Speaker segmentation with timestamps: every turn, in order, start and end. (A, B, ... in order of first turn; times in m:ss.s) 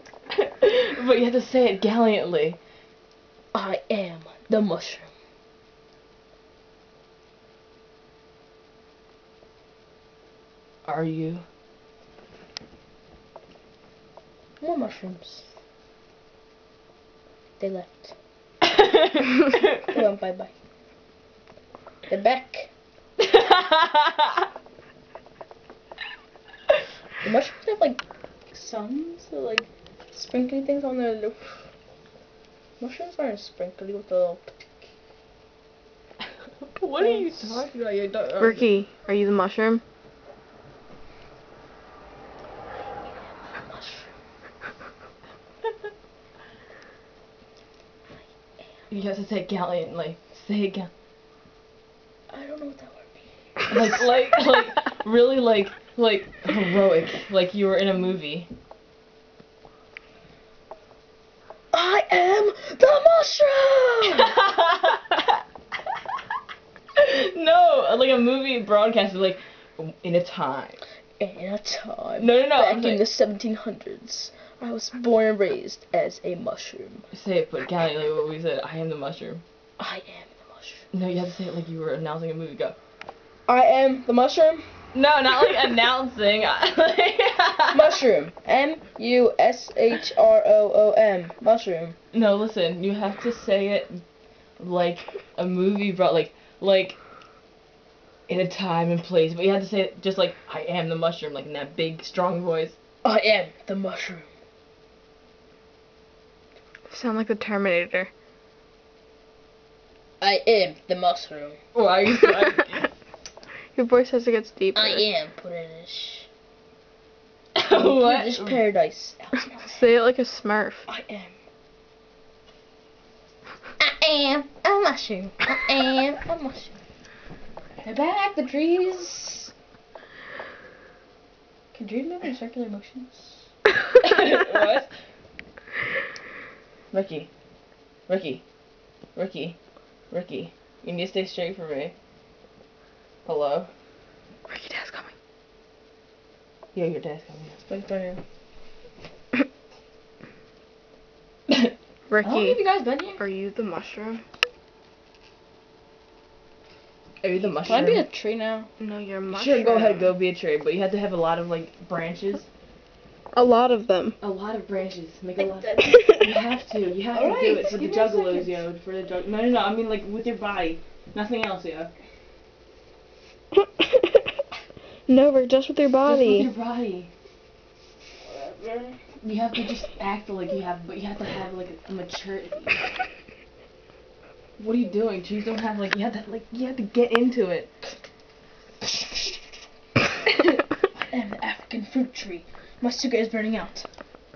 0:00.3-0:02.6 A
0:03.5-0:05.1 B
0:10.9-0:11.4 A
0:14.6-0:15.5 B
0:17.6-0:18.1 B
0:18.6-0:19.9 A
0:19.9-0:20.5 B
0:22.1-0:22.7 B
0:23.2-0:24.4 A
0:27.2-0:31.6 B
0:32.8-0:34.6 B
0:36.7-0:38.7 A
0:37.0-0:37.6 B
0:38.4-0:39.8 C
0:43.1-0:44.1 B
0:48.9-0:50.9 A
0:52.3-0:53.8 B
0:53.7-0:58.5 A
1:01.7-1:04.4 B
1:04.0-1:05.4 A
1:07.0-1:10.8 A
1:11.2-1:17.0 B
1:12.2-1:13.0 A
1:17.1-1:19.4 A
1:19.8-1:20.9 B
1:20.9-1:22.8 A
1:23.5-1:24.7 B
1:24.9-1:28.0 A
1:27.7-1:32.0 B
1:32.1-1:34.0 A
1:34.6-1:37.0 A
1:38.3-1:42.8 A
1:43.0-1:44.3 B
1:46.9-1:48.1 C
1:50.2-1:51.6 B
1:51.7-1:52.9 A
1:53.8-1:55.0 C
1:54.7-1:56.3 B
1:57.6-1:58.6 A
1:57.7-1:59.9 B
1:59.7-2:00.9 C
2:00.9-2:01.3 B
2:03.8-2:06.7 B
2:07.8-2:09.5 B
2:11.7-2:13.5 B
2:14.0-2:14.9 A
2:16.9-2:17.3 A
2:18.1-2:18.4 A
2:19.2-2:19.6 A
2:20.1-2:21.9 A
2:23.2-2:23.7 A
2:24.5-2:25.1 C
2:26.7-2:27.6 A
2:27.7-2:28.2 B
2:32.1-2:32.6 C
2:32.2-2:33.2 B
2:33.2-2:34.2 C
2:37.2-2:38.0 A
2:37.4-2:38.7 B
2:38.8-2:40.1 C
2:39.3-2:42.5 A
2:43.4-2:44.2 C
2:44.2-2:51.9 A
2:45.6-2:46.0 B
2:45.8-2:46.3 C
2:47.1-2:48.6 B
2:53.6-2:54.2 C
2:55.1-2:56.5 C
2:56.0-2:57.1 A
2:58.2-2:59.0 B
2:59.2-3:02.8 A
3:04.6-3:07.7 A
3:11.1-3:13.9 B